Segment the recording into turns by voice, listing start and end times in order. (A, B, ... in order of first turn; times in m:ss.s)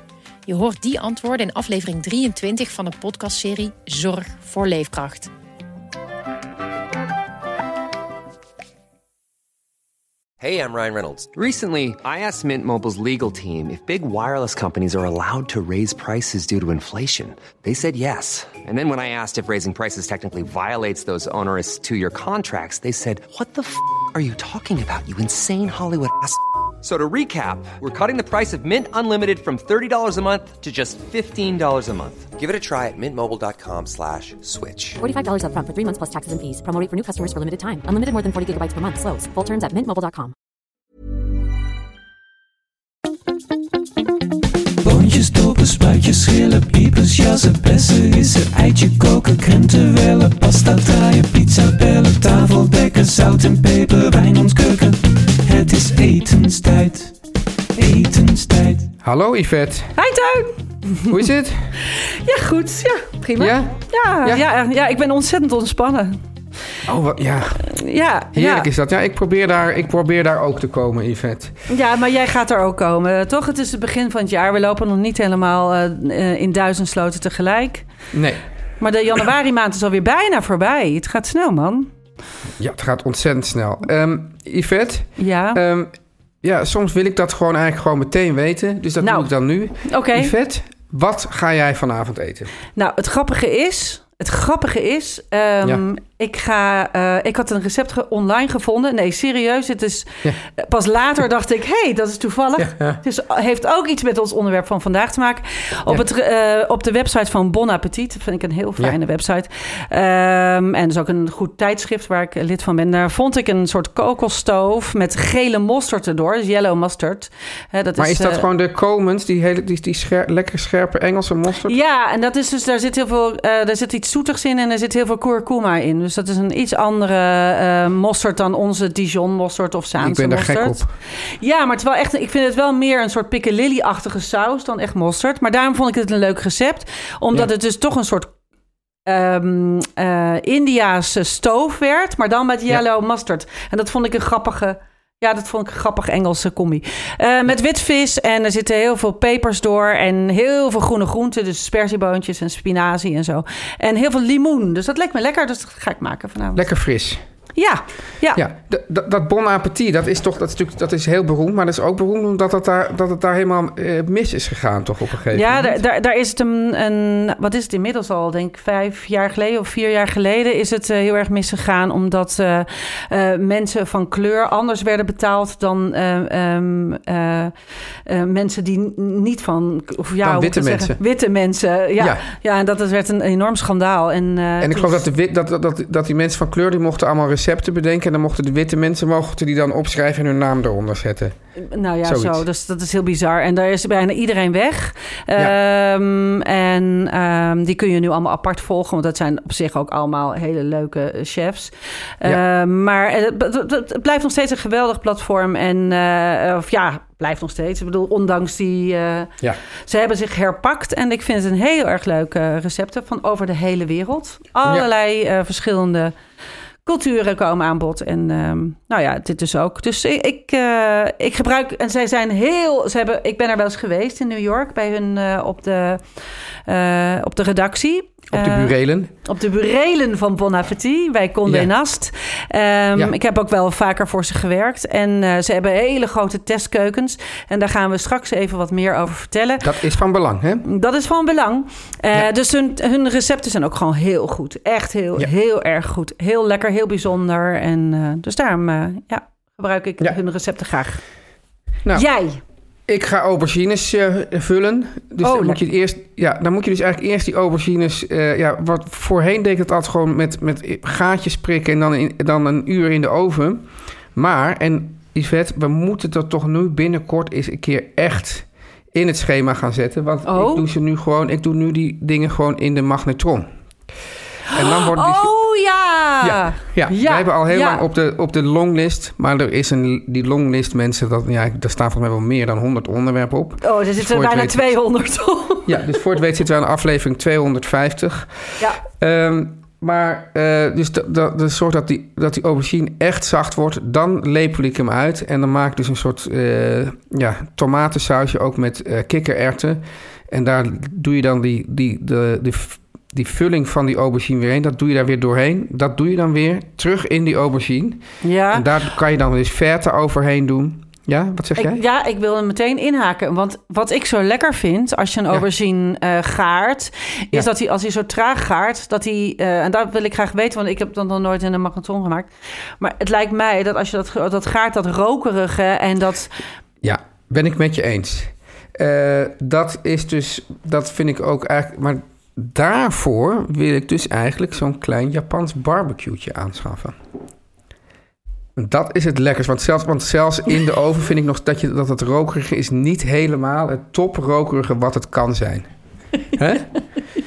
0:00.5-0:05.3 A
0:10.4-0:35.0 B
0:35.0-0:40.3 C
0:44.8-0:57.2 D
0:57.8-0:58.9 D
0:59.0-0:59.9 E
1:00.0-1:01.1 F
1:01.1-1:01.7 E
1:01.9-1:06.2 F
1:03.4-1:04.4 E
1:06.8-1:07.7 E
1:07.6-1:08.7 F
1:08.3-1:11.6 E
1:11.7-1:17.8 F
1:18.1-1:18.4 E
1:18.8-1:21.9 F
1:22.6-1:25.9 E
1:25.2-1:25.6 F
1:26.4-1:32.5 E
1:29.0-1:29.3 F
1:29.8-1:30.3 F
1:32.8-1:58.4 F
1:42.6-1:43.0 E
1:58.0-2:01.8 E
2:01.6-2:10.8 F
2:10.0-2:10.9 E
2:11.4-2:18.3 F
2:19.0-2:36.6 F
2:36.5-2:37.2 E
2:37.6-2:38.4 F
2:38.4-2:45.8 E
2:45.3-2:57.5 F
2:58.0-3:05.0 F
3:00.2-3:01.0 E
3:02.0-3:02.2 E
3:04.6-3:11.4 E
3:11.7-3:29.3 F
3:12.0-3:12.4 E
3:29.9-3:36.1 F
3:36.8-3:46.0 F
3:46.7-3:59.6 F
3:48.3-3:49.1 E
3:51.4-3:51.7 E
3:59.6-4:00.6 E
4:00.6-4:11.0 F
4:11.9-4:12.4 F
4:12.9-4:33.5 E
4:15.2-4:15.6 F
4:30.2-4:30.6 F
4:34.5-4:35.3 E
4:34.5-4:37.8 F
4:36.2-4:44.7 E
4:43.6-4:46.0 F
4:45.6-5:11.8 E
5:08.2-5:08.7 F
5:11.6-5:26.4 F
5:26.8-5:37.0 E
5:38.6-5:45.7 E
5:46.3-5:46.7 E